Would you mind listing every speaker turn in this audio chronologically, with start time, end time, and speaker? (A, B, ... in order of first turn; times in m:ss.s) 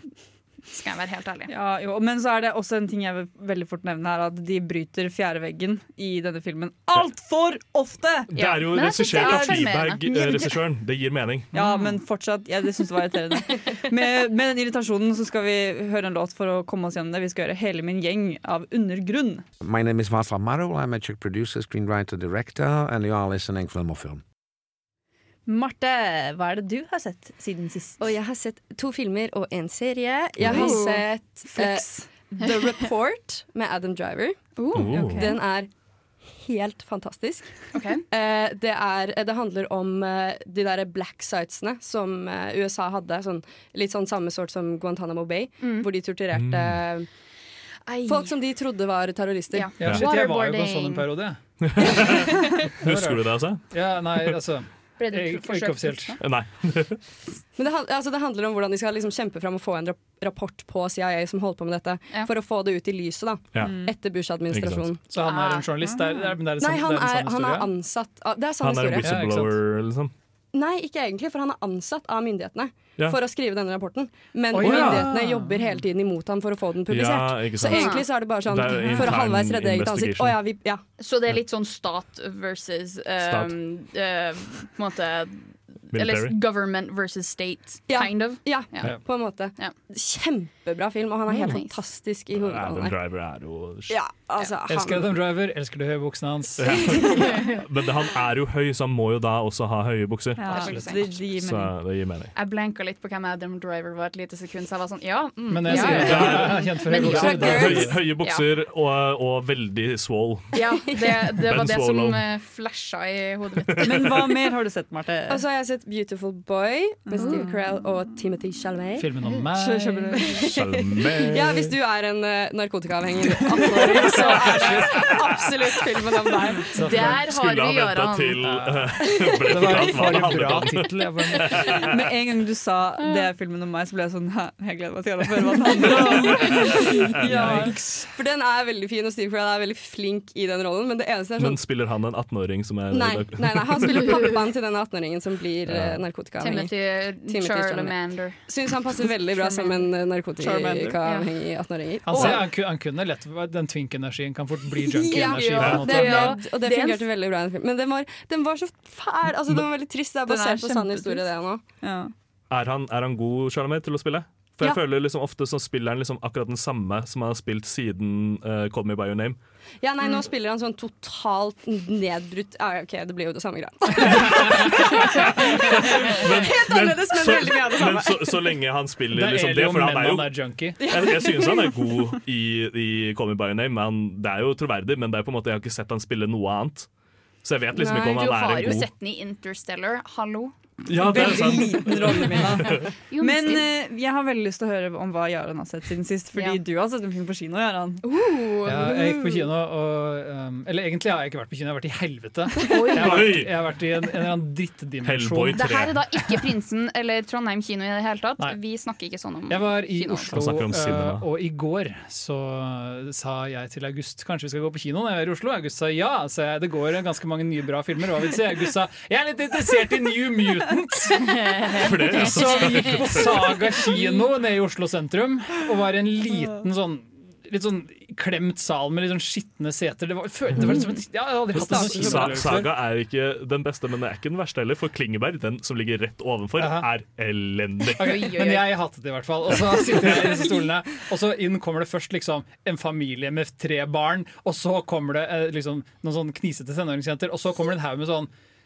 0:00.7-0:01.5 A
0:01.5-0:08.3 B
0:08.3-0:11.5 C
0:08.4-0:10.6 A
0:09.2-0:09.6 B
0:11.5-0:19.4 B
0:19.6-0:24.2 D
0:25.5-0:28.0 B
0:28.0-0:35.7 E
0:30.4-0:30.7 C
0:30.4-0:31.1 A
0:34.6-0:35.0 A
0:34.7-0:35.2 C
0:34.9-0:35.4 B
0:36.3-0:47.1 E
0:37.7-0:38.0 A
0:45.6-0:45.9 A
0:46.3-0:46.8 C
0:47.9-0:48.3 A
0:48.1-0:49.7 E
0:49.5-0:51.2 A
0:49.8-0:51.4 F
0:51.6-0:52.3 C
0:51.9-0:56.2 F
0:52.8-0:53.6 C
0:55.0-0:56.2 A
0:56.2-0:57.0 C
0:57.6-1:05.0 E
1:03.6-1:03.9 B
1:04.5-1:04.9 C
1:05.1-1:07.7 F
1:05.2-1:05.8 A
1:06.6-1:09.1 E
1:08.6-1:10.1 C
1:09.0-1:09.6 F
1:10.5-1:20.8 E
1:14.5-1:15.6 F
1:14.6-1:15.1 C
1:16.9-1:20.4 C
1:17.6-1:18.0 A
1:21.0-1:28.9 A
1:23.2-1:23.6 C
1:25.9-1:26.4 C
1:27.9-1:33.0 E
1:31.4-1:31.8 A
1:32.4-1:34.0 C
1:33.9-1:35.1 E
1:34.7-1:37.5 F
1:36.6-1:40.7 C
1:40.4-1:41.7 B
1:40.5-1:41.1 A
1:40.5-1:41.0 F
1:41.3-1:42.3 C
1:42.3-1:48.4 A
1:45.5-1:48.0 F
1:45.7-1:46.0 B
1:45.9-1:52.2 C
1:47.1-1:47.9 E
1:50.5-1:54.2 A
1:53.7-1:54.0 C
1:53.8-1:55.4 B
1:55.3-1:59.1 E
1:57.1-1:57.5 B
1:57.2-1:57.4 A
1:59.0-2:00.1 F
1:59.5-2:00.2 B
2:00.1-2:06.7 E
2:00.5-2:01.7 C
2:03.6-2:05.1 F
2:03.9-2:08.4 A
2:06.7-2:07.2 F
2:07.0-2:11.8 C
2:08.4-2:11.8 F
2:11.8-2:17.7 B
2:17.2-2:18.1 F
2:17.3-2:21.6 E
2:21.4-2:24.4 C
2:22.9-2:32.4 E
2:25.7-2:26.0 C
2:26.4-2:28.4 A
2:29.4-2:29.7 A
2:30.4-2:31.0 B
2:31.0-2:31.3 A
2:32.0-2:36.4 F
2:32.1-2:32.4 A
2:34.9-2:41.6 E
2:35.1-2:37.0 A
2:35.6-2:35.9 C
2:40.3-2:41.3 B
2:41.8-2:42.1 B
2:42.5-2:49.4 C
2:49.8-2:58.5 E
2:54.4-2:54.7 F
2:54.7-3:06.9 C
2:59.1-3:00.8 F
3:07.4-3:08.9 C
3:07.8-3:08.2 E
3:07.8-3:10.6 A
3:10.9-3:12.9 C
3:11.0-3:18.0 B
3:11.1-3:11.6 A
3:13.1-3:13.6 A
3:16.4-3:16.6 A
3:18.0-3:19.4 A
3:18.6-3:25.8 F
3:22.6-3:23.4 A
3:23.0-3:23.5 C
3:25.0-3:26.0 C
3:25.6-3:30.4 A
3:29.5-3:41.5 F
3:30.3-3:31.2 C
3:41.3-3:42.6 A
3:41.8-3:43.6 C
3:42.0-3:52.7 F
3:51.5-3:58.2 C
3:56.6-3:56.9 F
3:58.0-4:08.3 F
3:58.0-3:58.8 A